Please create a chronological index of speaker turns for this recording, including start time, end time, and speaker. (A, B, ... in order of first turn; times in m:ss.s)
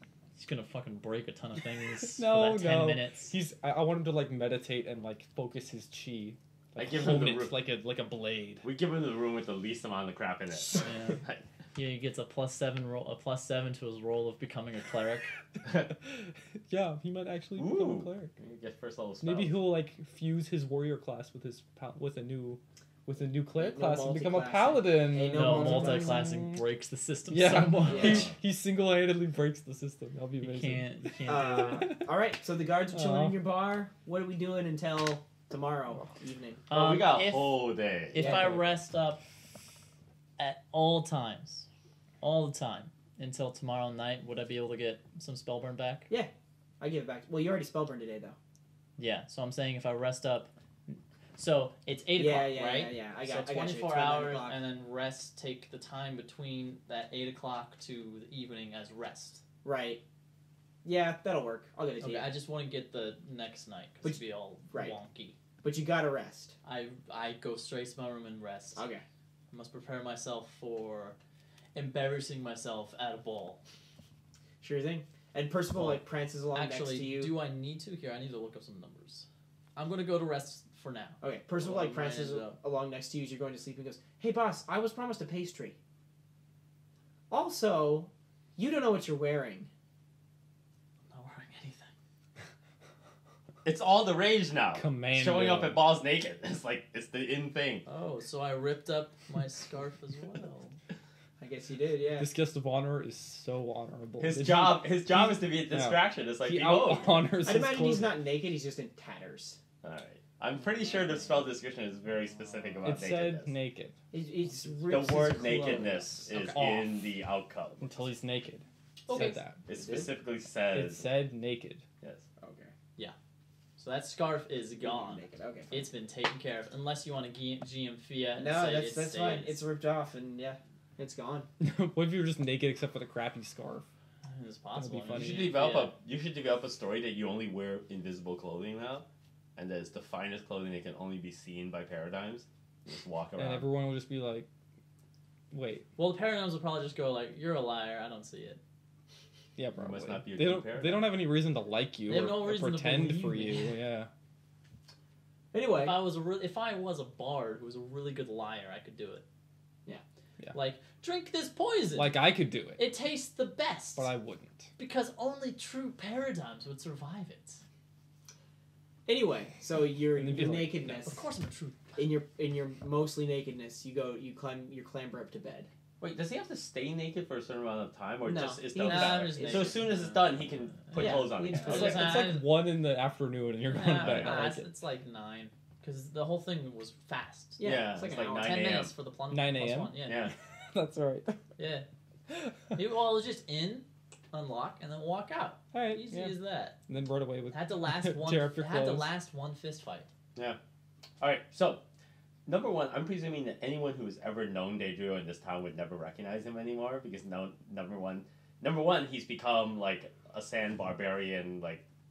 0:00.3-0:03.3 A
0:02.0-0:08.6 B
0:06.8-0:07.6 C
0:08.6-0:11.5 C
0:10.5-0:11.2 A
0:11.7-0:15.3 A
0:15.9-0:18.3 B
0:17.6-0:19.6 C
0:19.2-0:26.6 B
0:23.6-0:26.2 D
0:25.3-0:28.3 A
0:27.3-0:32.1 B
0:27.8-0:28.3 D
0:28.0-0:28.3 C
0:30.4-0:31.9 A
0:31.2-0:36.7 D
0:32.9-0:33.4 B
0:35.9-0:36.2 B
0:36.7-0:39.2 A
0:36.7-0:38.4 C
0:38.2-0:38.6 D
0:40.4-0:41.7 A
0:42.2-0:46.1 A
0:46.1-0:48.4 D
0:49.0-0:59.4 A
0:52.2-0:54.6 D
0:59.6-1:00.0 D
1:00.8-1:02.3 D
1:02.0-1:05.4 A
1:04.0-1:05.0 D
1:05.6-1:06.5 D
1:06.6-1:08.9 A
1:08.7-1:09.0 D
1:09.5-1:11.2 A
1:11.7-1:13.6 A
1:14.6-1:17.4 D
1:15.7-1:22.6 A
1:21.2-1:25.8 D
1:27.3-1:29.7 D
1:31.1-1:31.9 A
1:33.6-1:37.8 C
1:34.7-1:35.8 B
1:37.8-1:40.7 A
1:41.4-1:42.3 D
1:42.2-1:48.2 B
1:44.2-1:47.4 C
1:47.4-1:49.6 D
1:49.8-1:53.5 C
1:52.8-1:54.0 B
1:54.1-1:56.3 D
1:54.9-1:58.1 C
1:56.3-1:56.6 A
1:56.5-1:56.9 B
1:57.8-1:59.6 B
1:59.1-1:59.4 A
1:59.1-2:00.1 D
1:59.6-2:01.1 C
2:00.7-2:01.8 B
2:02.4-2:02.7 D
2:03.8-2:09.6 A
2:04.8-2:05.9 D
2:08.4-2:11.5 D
2:11.6-2:13.8 B
2:14.2-2:15.9 A
2:14.7-2:15.5 B
2:15.1-2:23.7 C
2:23.4-2:24.5 B
2:25.5-2:25.8 B
2:26.0-2:28.6 A
2:29.6-2:34.1 B
2:29.7-2:31.2 C
2:32.0-2:33.8 A
2:35.5-2:36.0 D
2:35.8-2:39.2 A
2:40.5-2:44.1 A
2:41.9-2:42.8 B
2:44.0-2:44.7 B
2:44.8-2:47.6 A
2:49.0-2:51.3 D
2:50.1-2:51.0 B
2:51.0-2:52.0 A
2:52.0-2:55.7 D
2:56.0-3:02.1 C
2:58.2-2:59.8 D
2:58.8-3:02.8 A
3:00.9-3:02.3 D
3:01.7-3:04.7 B
3:03.6-3:07.7 A
3:04.0-3:04.4 C
3:07.6-3:08.5 D
3:07.6-3:08.9 C
3:08.4-3:10.3 A
3:09.3-3:11.4 B
3:10.0-3:10.3 C
3:11.6-3:11.8 A
3:12.3-3:12.8 B
3:12.7-3:16.8 A
3:15.7-3:19.1 B
3:17.5-3:20.1 A
3:21.2-3:21.8 C
3:22.4-3:31.8 C